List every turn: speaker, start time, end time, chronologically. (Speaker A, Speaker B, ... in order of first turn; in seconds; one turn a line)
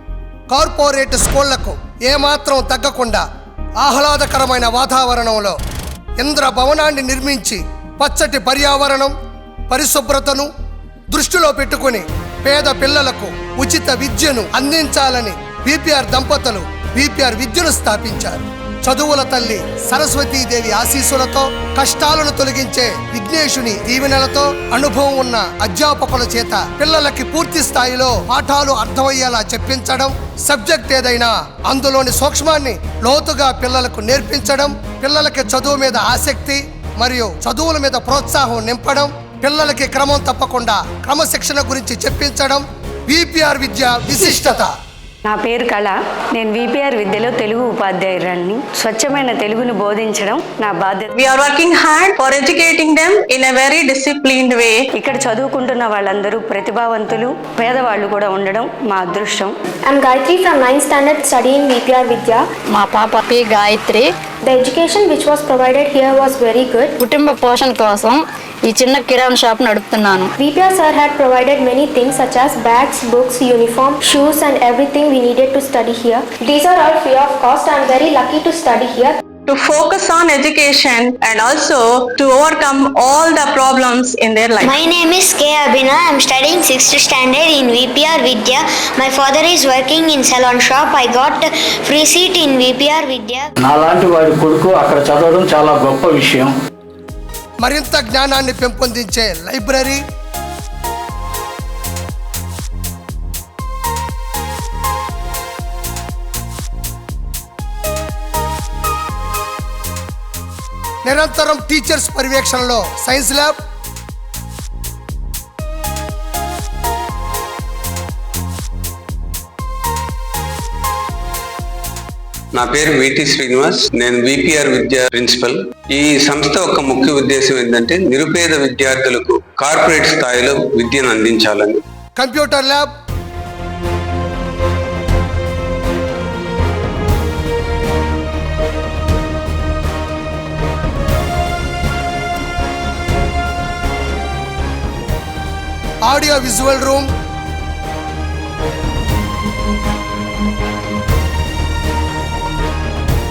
Speaker A: 0.5-3.2
Speaker A: 3.8-5.6
Speaker A: 6.2-9.1
Speaker A: 9.7-10.5
Speaker A: 11.1-44.7
Speaker B: 45.2-51.2
Speaker C: 51.1-54.9
Speaker B: 54.9-59.5
Speaker D: 59.9-62.4
Speaker E: 62.7-64.1
Speaker D: 64.5-66.9
Speaker E: 67.0-70.3
Speaker D: 70.4-79.1
Speaker C: 79.5-84.8
Speaker F: 84.7-93.4
Speaker G: 93.6-96.5
Speaker A: 97.6-100.0
Speaker A: 111.0-113.6
Speaker H: 122.5-131.8
Speaker A: 132.2-132.9
Speaker A: 146.1-147.1